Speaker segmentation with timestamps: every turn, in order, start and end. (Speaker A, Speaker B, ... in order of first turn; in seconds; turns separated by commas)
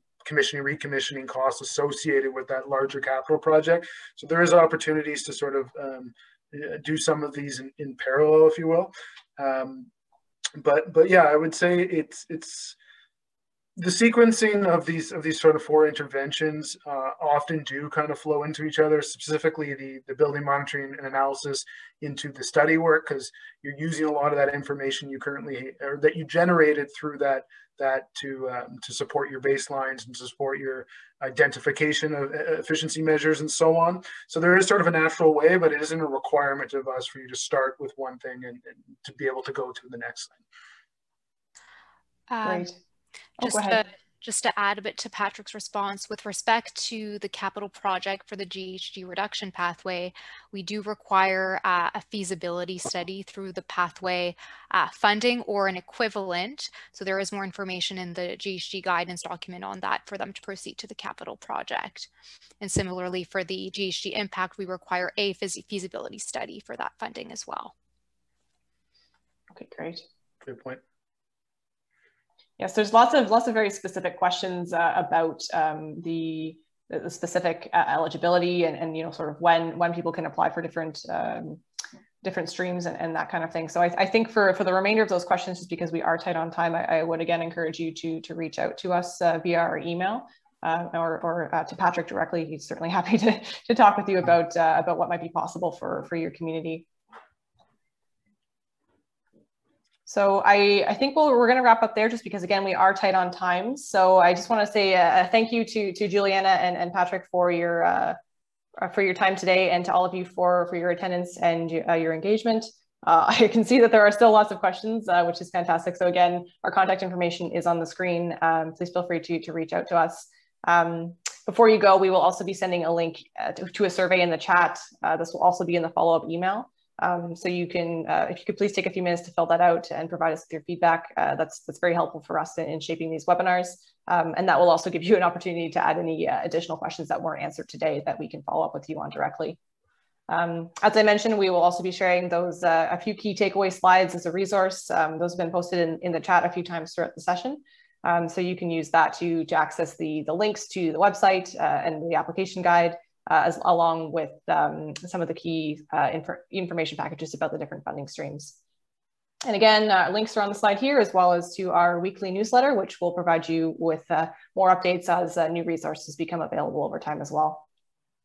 Speaker A: 0.2-9.9, Speaker A: 10.6-12.8, Speaker A: 13.8-40.4, Speaker B: 42.3-42.7, Speaker C: 42.4-42.8, Speaker C: 43.4-43.8, Speaker B: 43.4-62.1, Speaker B: 62.6-67.7, Speaker C: 69.5-70.0, Speaker A: 70.5-70.8, Speaker C: 72.6-81.6, Speaker C: 82.2-96.9, Speaker C: 100.1-108.2, Speaker C: 108.8-139.6, Speaker C: 140.3-158.6, Speaker C: 159.4-167.7